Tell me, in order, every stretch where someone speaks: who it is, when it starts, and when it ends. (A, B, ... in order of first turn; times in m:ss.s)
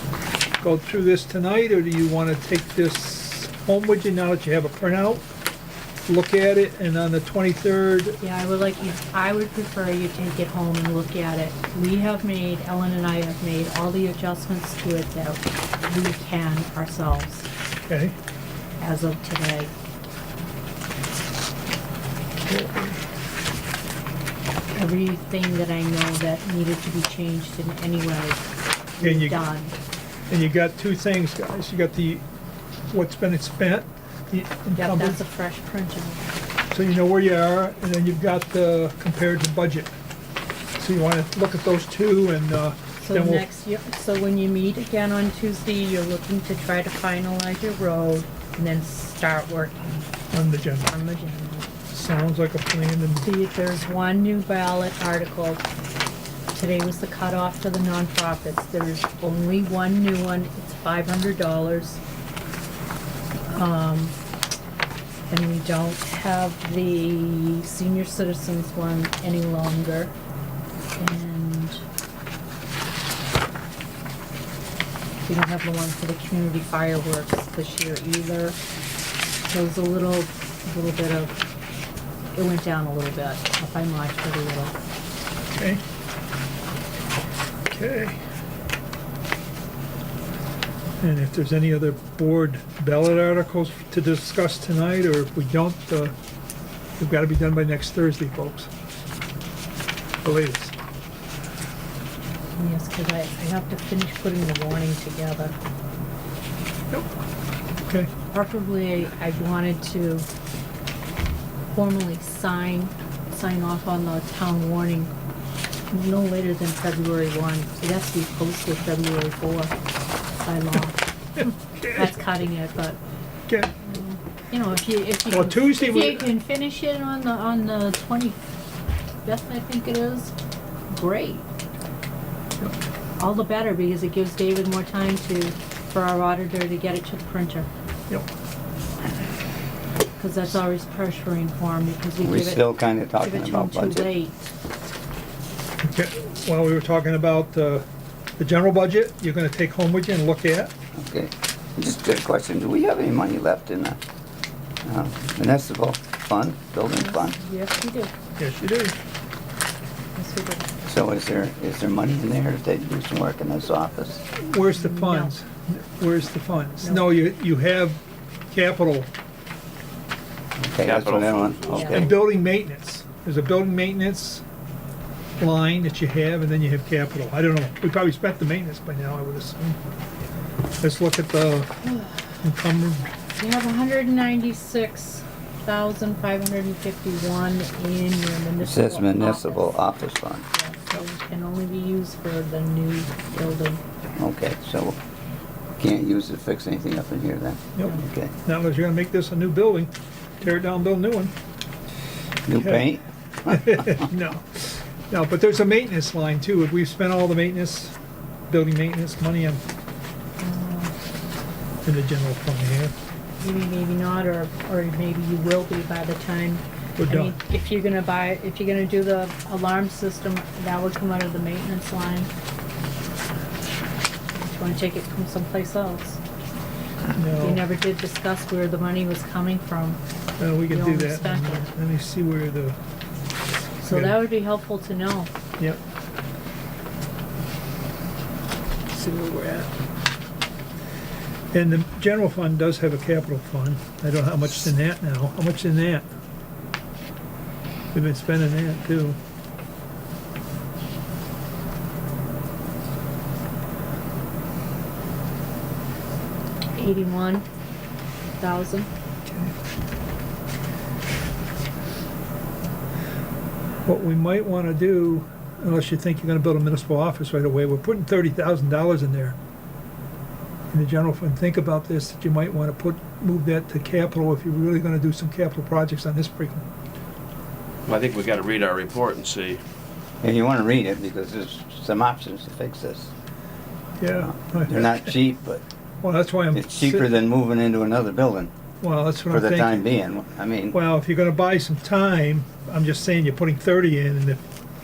0:00.6-0:05.2 A
0:06.1-0:08.2 A
0:08.2-0:17.5 B
0:17.9-0:18.2 A
0:18.8-0:19.7 B
0:22.5-0:23.0 A
0:24.7-0:29.8 B
0:29.0-0:29.4 A
0:30.3-0:32.2 A
0:32.9-0:35.2 A
0:34.8-0:36.3 B
0:36.7-0:39.9 A
0:40.8-0:43.5 A
0:43.0-0:50.0 B
0:50.3-0:50.9 A
0:50.9-0:51.7 B
0:51.9-0:53.3 A
0:53.2-0:55.6 B
0:56.5-1:02.0 B
1:03.5-1:04.2 B
1:05.3-1:10.1 B
1:11.0-1:11.8 B
1:15.3-1:18.6 B
1:19.5-1:21.4 B
1:22.4-1:24.8 B
1:25.5-1:25.8 A
1:27.7-1:28.2 A
1:31.0-1:36.2 A
1:37.0-1:38.7 A
1:40.2-1:40.7 A
1:42.6-1:45.6 B
1:47.8-1:48.1 A
1:48.3-1:50.3 B
1:51.7-1:55.1 B
1:55.9-1:59.7 B
2:00.4-2:03.0 B
2:01.4-2:02.1 A
2:03.5-2:03.7 A
2:03.8-2:08.4 B
2:05.3-2:06.3 A
2:09.2-2:10.3 B
2:10.9-2:11.5 B
2:13.2-2:17.7 B
2:20.2-2:24.4 B
2:22.2-2:24.1 C
2:25.8-2:27.9 A
2:28.4-2:30.7 A
2:31.0-2:34.0 C
2:34.8-2:37.4 C
2:37.0-2:38.1 B
2:38.4-2:39.0 A
2:40.2-2:40.7 B
2:40.8-2:44.2 C
2:44.4-2:49.1 A
2:44.7-2:45.3 B
2:46.8-2:47.1 B
2:50.6-2:52.1 C
2:50.8-2:52.0 D
2:51.7-2:52.0 B
2:51.9-2:54.4 A
2:55.4-2:59.8 A
3:00.8-3:01.8 A
3:02.4-3:03.1 A
3:03.4-3:09.7 B
3:08.6-3:10.4 C
3:10.5-3:13.8 B
3:14.2-3:15.0 C
3:15.8-3:18.3 C
3:17.8-3:21.4 A
3:22.5-3:23.9 C
3:22.6-3:22.9 A
3:23.5-3:28.0 A
3:28.5-3:29.6 A
3:30.4-3:30.9 B
3:31.8-3:33.0 A
3:33.4-3:42.3 B
3:37.0-3:37.4 A
3:44.4-3:46.2 B
3:47.1-3:47.6 A
3:47.4-3:50.0 B
3:50.4-3:52.8 A
3:50.6-3:51.7 B
3:53.8-3:55.3 B
3:53.8-3:54.3 A
3:58.9-3:59.7 A
4:01.5-4:06.1 A
4:07.9-4:09.2 A
4:16.8-4:17.5 B
4:18.4-4:18.9 B
4:19.3-4:19.5 A
4:23.8-4:29.4 A
4:30.7-4:36.7 A
4:37.9-4:39.6 D
4:40.2-4:43.1 C
4:44.0-4:45.1 A
4:44.5-4:45.6 C
4:46.0-4:47.1 A
4:46.5-4:48.5 C
4:48.8-4:49.9 A
4:49.3-4:50.8 C
4:50.7-4:54.4 A